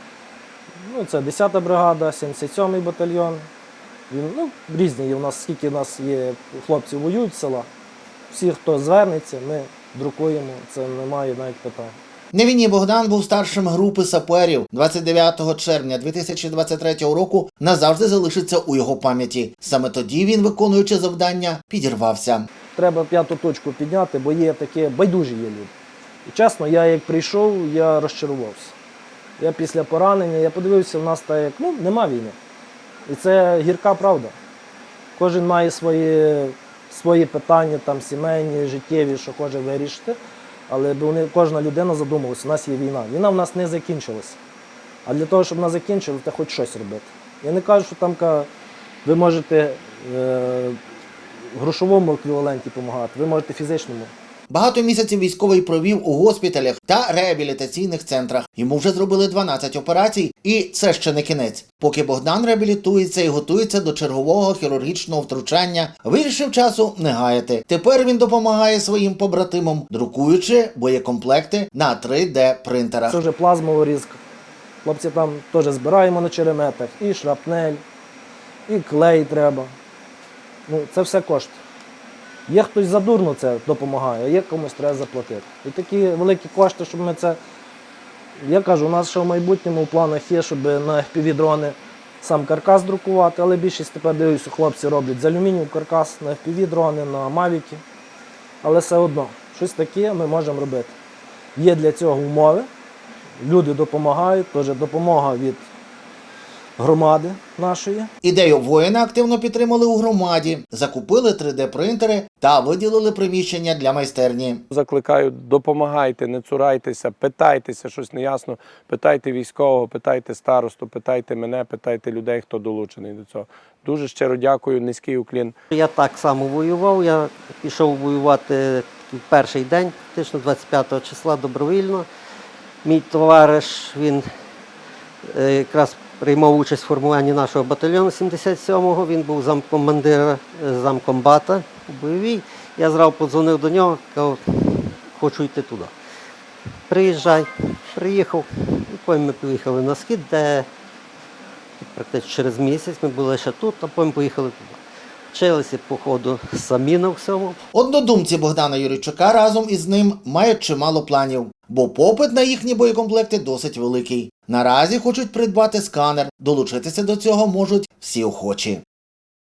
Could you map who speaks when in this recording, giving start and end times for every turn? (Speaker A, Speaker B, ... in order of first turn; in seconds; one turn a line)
Speaker A: 0.8-3.5
Speaker A: 4.1-7.7
Speaker A: 8.3-11.9
Speaker B: 12.3-22.5
Speaker A: 22.7-25.7
Speaker A: 26.2-28.7
Speaker A: 29.4-32.4
Speaker A: 33.1-34.3
Speaker A: 35.1-44.4
Speaker A: 45.0-48.5
Speaker A: 49.0-50.8
Speaker A: 51.5-54.1
Speaker B: 54.5-73.2
Speaker A: 73.1-74.2
Speaker A: 74.8-77.8
Speaker A: 78.7-79.7
Speaker A: 80.7-81.6
Speaker A: 82.5-87.4
Speaker A: 88.4-97.8
Speaker A: 98.6-100.9
Speaker A: 101.5-102.7
Speaker A: 103.4-105.7
Speaker A: 106.8-108.1
Speaker B: 108.2-114.6
Speaker C: 114.7-125.5
Speaker D: 125.7-132.1
Speaker D: 132.8-134.3
Speaker D: 135.3-145.9
Speaker D: 146.9-150.7
Speaker D: 151.8-154.8
Speaker D: 155.3-157.6
Speaker B: 157.7-168.8